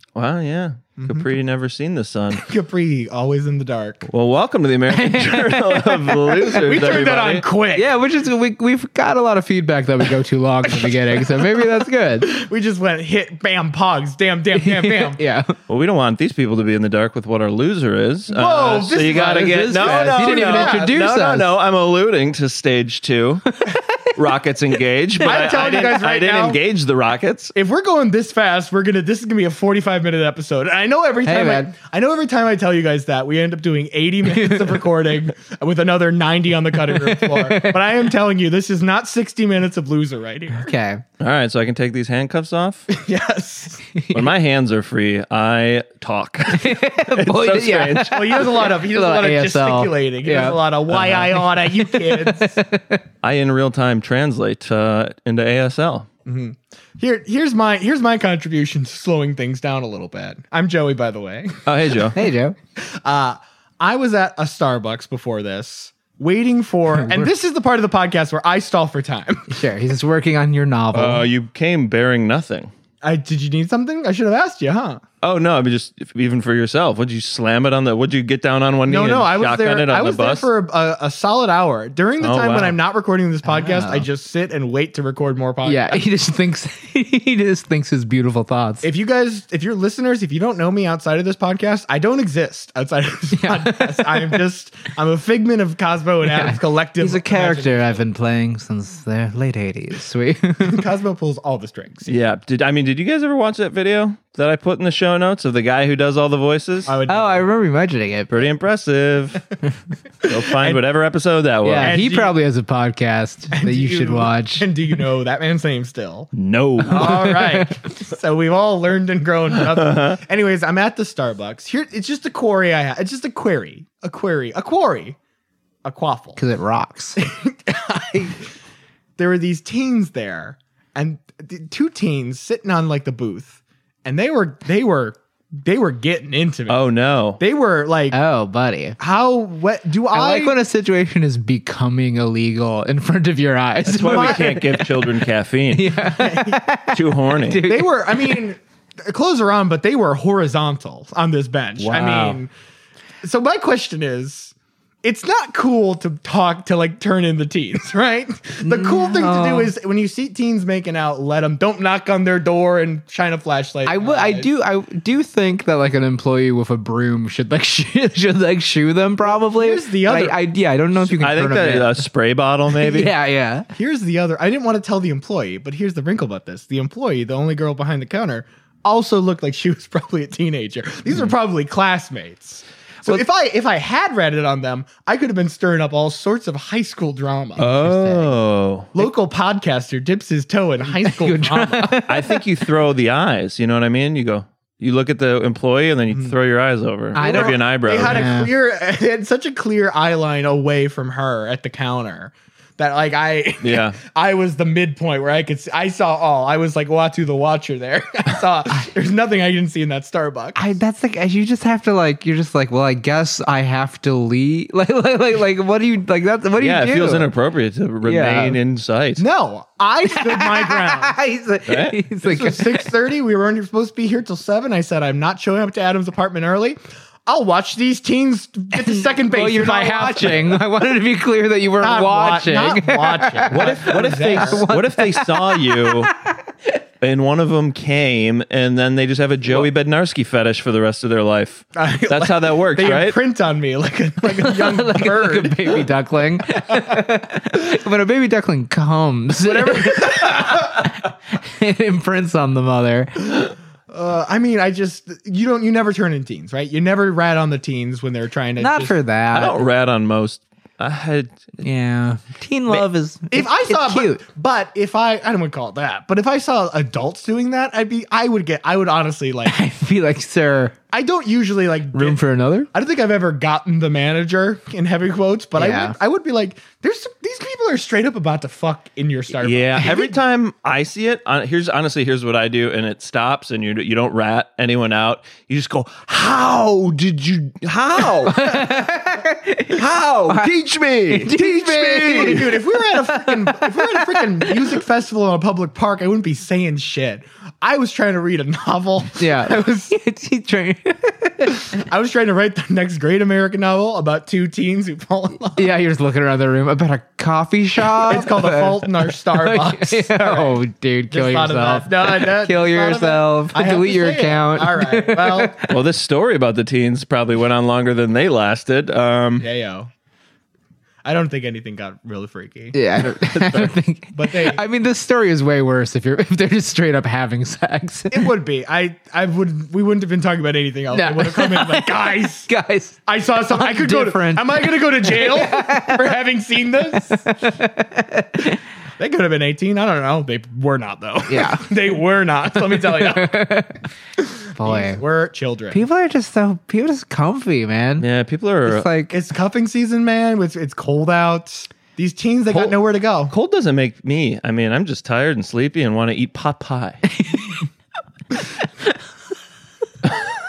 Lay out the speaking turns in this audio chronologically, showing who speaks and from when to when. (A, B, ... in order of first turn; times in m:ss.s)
0:00.2-0:02.5 A
0:01.0-0:01.3 B
0:02.4-0:04.1 B
0:04.1-0:07.4 A
0:04.9-0:06.6 C
0:06.6-0:07.9 B
0:07.8-0:12.3 C
0:10.7-0:15.2 B
0:14.6-0:15.5 C
0:15.7-0:23.6 A
0:18.3-0:21.2 B
0:19.0-0:21.5 C
0:23.6-0:24.1 C
0:24.2-0:27.5 A
0:25.2-0:26.6 B
0:27.5-0:40.7 B
0:31.2-0:31.7 C
0:34.4-0:34.7 C
0:36.9-0:37.8 C
0:40.5-0:41.0 C
0:41.2-0:42.9 A
0:42.9-0:43.8 B
0:44.0-0:44.2 C
0:44.1-0:48.5 A
0:46.5-0:50.6 C
0:48.1-0:52.6 B
0:51.6-0:53.0 C
0:53.2-0:56.1 A
0:56.3-1:01.7 B
1:01.7-1:02.2 A
1:02.2-1:02.6 C
1:02.9-1:09.6 B
1:06.9-1:07.3 C
1:09.5-1:11.3 C
1:10.9-1:12.7 A
1:13.0-1:15.0 B
1:15.2-1:20.5 A
1:18.9-1:26.0 B
1:22.2-1:22.8 A
1:23.5-1:24.1 C
1:25.6-1:28.9 C
1:28.8-1:38.0 B
1:33.4-1:34.4 C
1:36.3-1:40.8 C
1:40.6-1:42.2 B
1:42.1-1:46.9 A
1:46.9-1:47.5 B
1:47.1-1:48.4 C
1:48.3-1:49.4 A
1:50.2-1:52.0 A
1:50.2-1:50.8 B
1:51.6-1:54.7 C
1:51.8-1:52.4 B
1:53.5-1:56.3 B
1:56.3-1:57.5 A
1:56.8-2:05.2 B
1:57.1-1:57.5 C
1:59.8-2:00.2 A
2:05.8-2:06.4 B
2:06.4-2:07.2 C
2:07.2-2:08.4 B
2:09.2-2:16.8 B
2:16.7-2:17.4 A
2:17.4-2:18.2 B
2:18.1-2:19.0 C
2:19.0-2:20.6 B
2:20.1-2:25.1 C
2:23.9-2:26.0 A
2:24.0-2:24.6 B
2:25.7-2:28.4 C
2:26.1-2:26.6 B
2:26.9-2:27.7 A
2:27.6-2:32.5 B
2:31.8-2:32.4 A
2:33.2-2:44.5 B
2:38.6-2:39.7 C
2:43.8-2:52.1 C
2:49.2-2:50.4 B
2:51.1-2:53.1 A
2:52.7-2:53.7 C
2:53.7-3:07.7 B
3:07.6-3:08.9 A
3:07.8-3:08.3 C
3:08.9-3:12.1 B
3:10.9-3:12.4 C
3:12.1-3:18.3 A
3:17.2-3:18.5 C
3:17.2-3:30.6 B
3:23.6-3:24.0 A
3:30.6-3:37.3 C
3:36.6-3:39.2 A
3:38.0-3:38.6 C
3:39.2-3:41.2 B
3:40.1-3:42.9 C
3:41.7-3:42.0 A
3:42.2-3:50.6 B
3:48.8-3:56.4 C
3:51.8-3:54.7 B
3:53.5-3:56.1 A
3:57.0-4:03.2 A
4:01.8-4:05.9 B
4:04.3-4:13.2 C
4:09.4-4:10.7 B
4:13.9-4:19.0 B
4:18.6-4:19.6 C
4:19.3-4:21.5 A
4:21.6-4:24.2 C
4:23.3-4:29.6 B
4:29.5-4:30.8 C
4:30.9-4:40.2 B
4:31.9-4:32.7 C
4:35.6-4:36.0 C
4:39.4-4:48.7 A
4:48.3-4:50.5 C
4:49.7-4:52.4 A
4:51.1-4:54.7 C
4:51.3-5:00.0 B
4:59.2-5:01.7 C
5:01.7-5:05.7 B
5:05.6-5:15.7 C
5:07.9-5:15.6 B
5:15.7-5:19.5 A
5:19.4-5:19.9 B
5:21.0-5:22.8 B
5:22.7-5:28.3 C
5:23.2-5:23.7 A
5:24.2-5:24.6 B
5:28.1-5:32.5 B
5:30.9-5:33.0 C
5:33.1-5:37.3 B
5:33.5-5:36.2 C
5:37.1-5:38.6 C
5:39.0-5:43.4 B
5:41.3-5:41.7 C
5:42.8-5:43.8 C
5:44.2-5:45.8 B
5:44.6-5:45.0 C
5:45.7-5:48.1 C
5:48.0-5:48.9 A
5:48.7-5:49.2 C
5:49.1-5:53.3 B
5:52.5-5:52.8 A
5:53.3-5:57.1 A
5:57.1-5:57.6 C